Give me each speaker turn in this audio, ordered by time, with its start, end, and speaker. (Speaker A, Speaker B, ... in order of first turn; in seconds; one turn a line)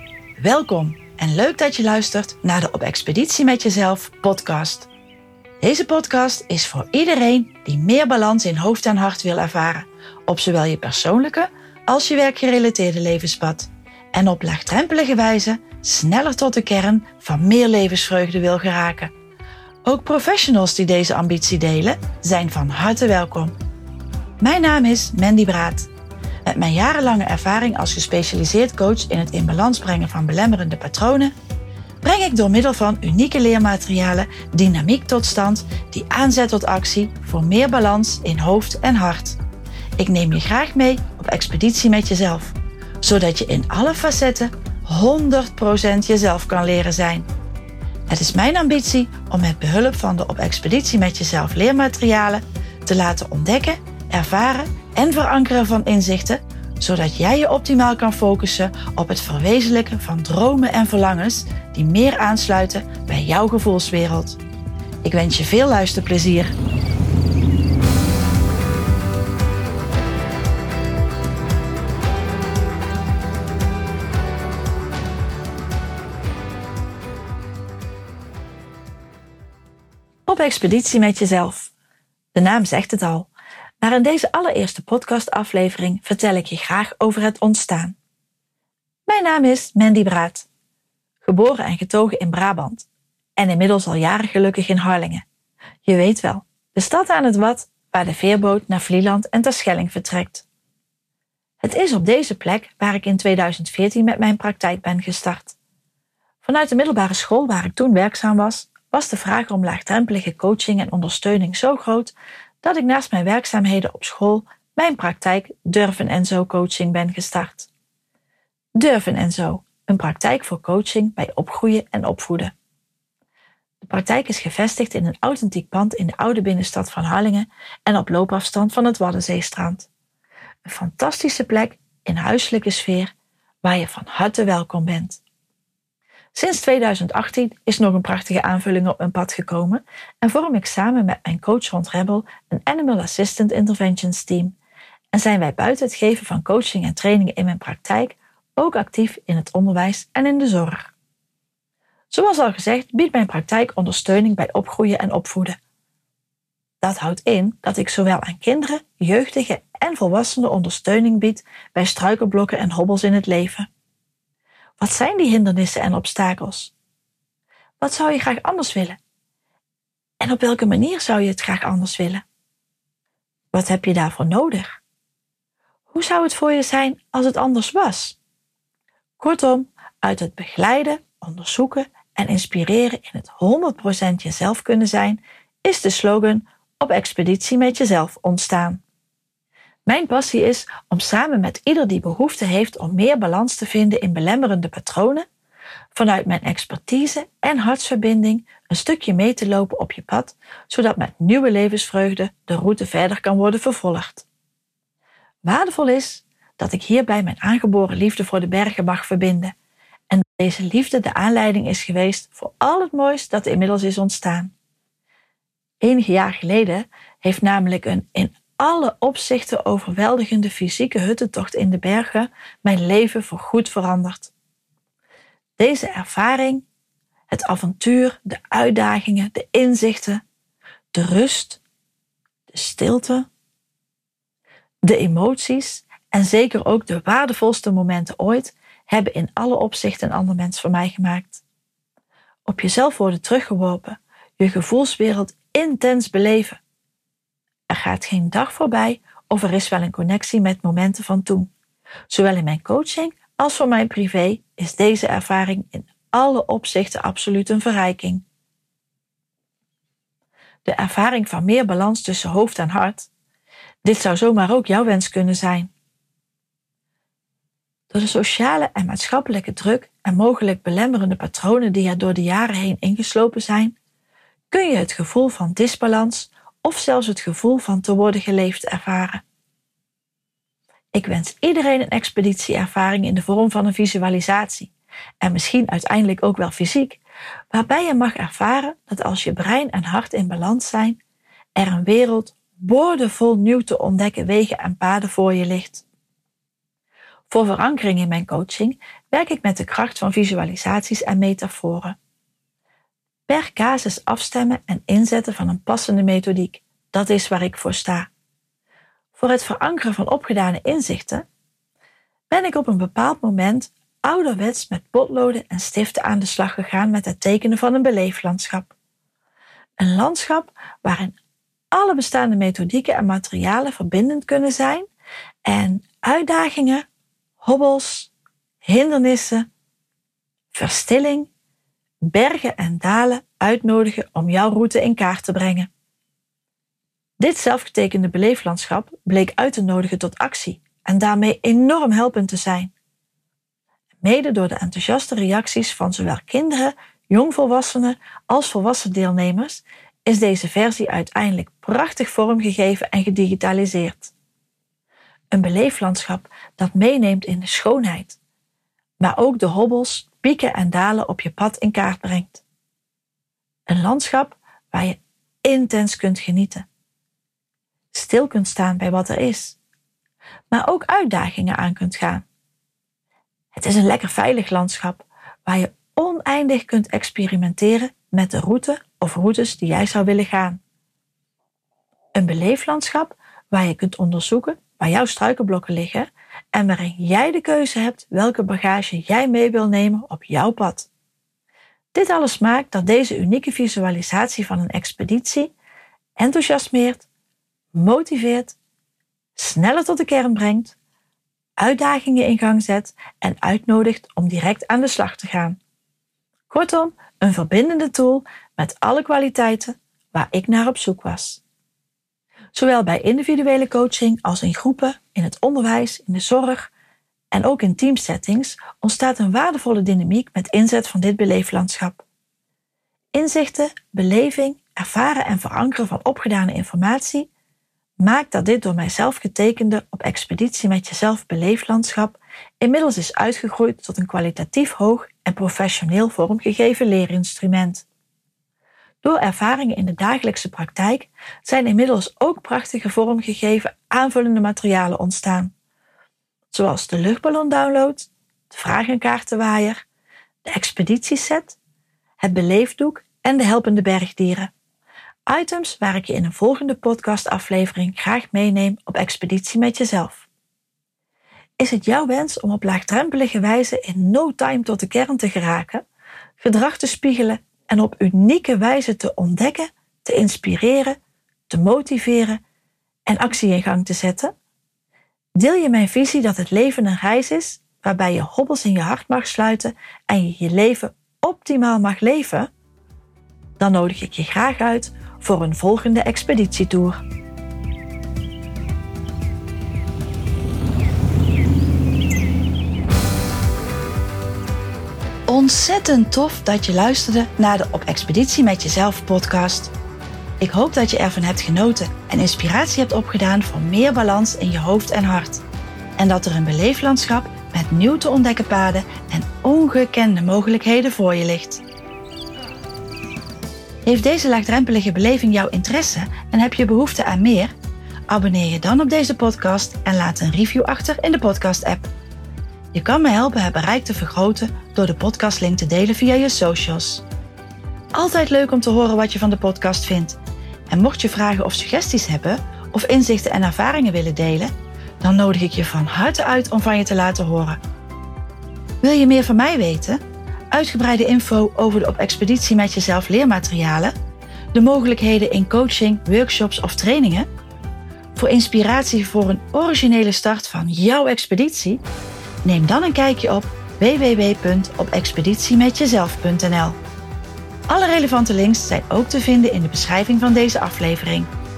Speaker A: 0.4-4.9
Speaker A: 5.6-19.1
Speaker A: 19.9-23.6
Speaker A: 24.4-25.9
Speaker A: 26.4-31.3
Speaker A: 32.0-39.4
Speaker A: 40.0-47.3
Speaker A: 48.1-64.4
Speaker A: 65.0-66.5
Speaker A: 80.3-81.7
Speaker A: 82.3-83.3
Speaker A: 83.8-88.0
Speaker A: 89.1-90.5
Speaker A: 91.2-95.2
Speaker A: 95.8-100.5
Speaker A: 101.6-105.6
Speaker A: 106.4-117.7
Speaker A: 118.8-122.5
Speaker A: 123.8-129.9
Speaker A: 130.7-135.2
Speaker A: 136.3-144.6
Speaker A: 145.1-150.9
Speaker A: 152.1-155.6
Speaker A: 156.8-163.7
Speaker A: 164.8-166.7
Speaker A: 167.8-169.0
Speaker A: 170.2-172.2
Speaker A: 173.5-174.8
Speaker A: 175.9-178.2
Speaker A: 179.2-188.8
Speaker A: 189.9-195.3
Speaker A: 195.9-204.3
Speaker A: 205.4-209.5
Speaker A: 210.1-214.5
Speaker A: 215.8-224.3
Speaker A: 225.6-226.7
Speaker A: 227.3-230.2
Speaker A: 230.9-231.6
Speaker A: 232.5-233.3
Speaker A: 234.8-241.4
Speaker A: 242.4-246.6
Speaker A: 247.7-251.5
Speaker A: 252.1-258.2
Speaker A: 260.6-263.1
Speaker A: 263.8-265.7
Speaker A: 267.9-273.8
Speaker A: 274.5-279.2
Speaker A: 280.9-291.0
Speaker A: 291.6-295.9
Speaker A: 297.3-302.0
Speaker A: 303.3-308.1
Speaker A: 309.1-311.3
Speaker A: 312.3-318.7
Speaker A: 319.8-321.2
Speaker A: 321.7-324.9
Speaker A: 325.4-326.9
Speaker A: 327.4-328.1
Speaker A: 328.6-329.5
Speaker A: 330.5-331.3
Speaker A: 332.0-335.7
Speaker A: 337.2-342.7
Speaker A: 344.0-354.1
Speaker A: 355.3-358.2
Speaker A: 359.0-362.4
Speaker A: 363.7-366.7
Speaker A: 367.9-369.6
Speaker A: 370.5-372.2
Speaker A: 373.5-380.6
Speaker A: 382.1-390.9
Speaker A: 391.9-395.5
Speaker A: 396.2-397.1
Speaker A: 397.7-398.6
Speaker A: 399.4-400.8
Speaker A: 401.6-405.6
Speaker A: 406.5-411.4
Speaker A: 412.5-416.7
Speaker A: 417.3-422.0
Speaker A: 423.1-427.3
Speaker A: 428.0-437.9
Speaker A: 439.0-445.5
Speaker A: 446.5-449.8
Speaker A: 450.4-451.6
Speaker A: 452.2-454.5
Speaker A: 455.3-460.3
Speaker A: 461.6-465.9
Speaker A: 466.4-471.0
Speaker A: 471.5-472.4
Speaker A: 473.1-474.3
Speaker A: 475.4-482.5
Speaker A: 483.6-487.0
Speaker A: 495.3-499.7
Speaker A: 500.4-505.4
Speaker A: 506.0-511.6
Speaker A: 513.9-517.5
Speaker A: 518.1-521.9
Speaker A: 522.7-527.0
Speaker A: 528.0-530.2
Speaker A: 530.7-537.6
Speaker A: 538.8-543.9
Speaker A: 544.5-547.3
Speaker A: 548.1-551.8
Speaker A: 552.4-556.8
Speaker A: 557.7-561.3